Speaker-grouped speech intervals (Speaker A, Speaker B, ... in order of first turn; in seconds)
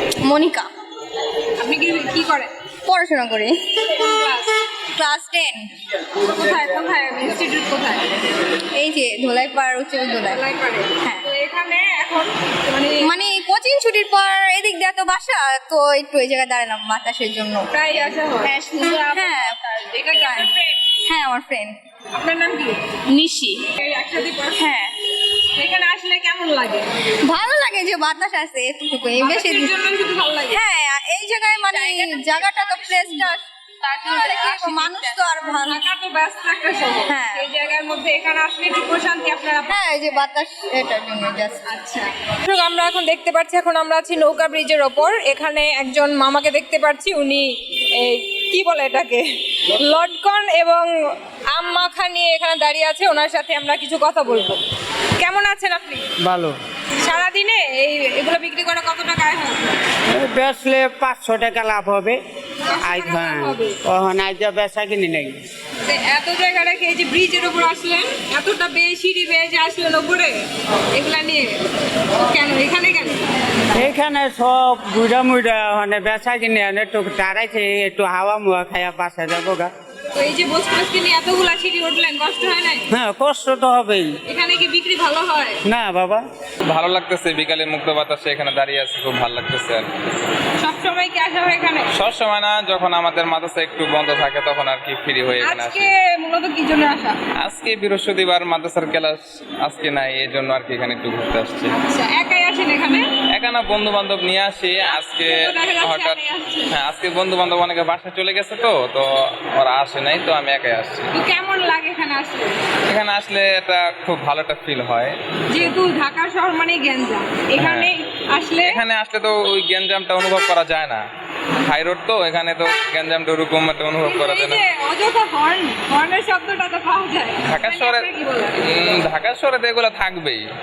Speaker A: 0.2-0.7, 2.9-3.7, 4.9-5.7, 8.7-10.4, 11.0-11.3, 13.0-17.7, 18.4-20.5, 21.1-21.8, 23.1-23.6, 24.6-24.9, 27.2-29.7, 30.5-33.5, 34.0-35.8, 37.0-37.5, 39.7-41.7
Speaker B: 1.6-2.5, 3.9-4.5, 6.2-8.1, 10.1-13.1, 17.7-20.9, 22.1-23.0, 23.7-24.7, 25.4-26.9, 29.2-30.6, 31.7-39.9, 41.7-50.9, 51.5-54.6, 55.2-56.1, 57.0-59.8, 62.7-63.8, 65.8-71.6, 72.1-73.3, 80.1-82.9, 84.2-85.6, 90.6-91.9, 95.4-97.2, 101.8-103.1, 104.9-106.8, 111.1-112.6, 115.5-118.8, 124.0-129.0
Speaker C: 56.2-56.6, 60.1-62.2, 62.8-65.4, 73.7-79.7, 82.9-84.1, 85.7-86.2
Speaker D: 86.6-89.9, 91.9-95.9, 97.4-101.7, 103.3-106.2, 106.7-111.1, 112.8-115.7, 117.6-117.9, 118.6-121.0, 121.6-124.6, 127.4-128.1, 128.6-130.4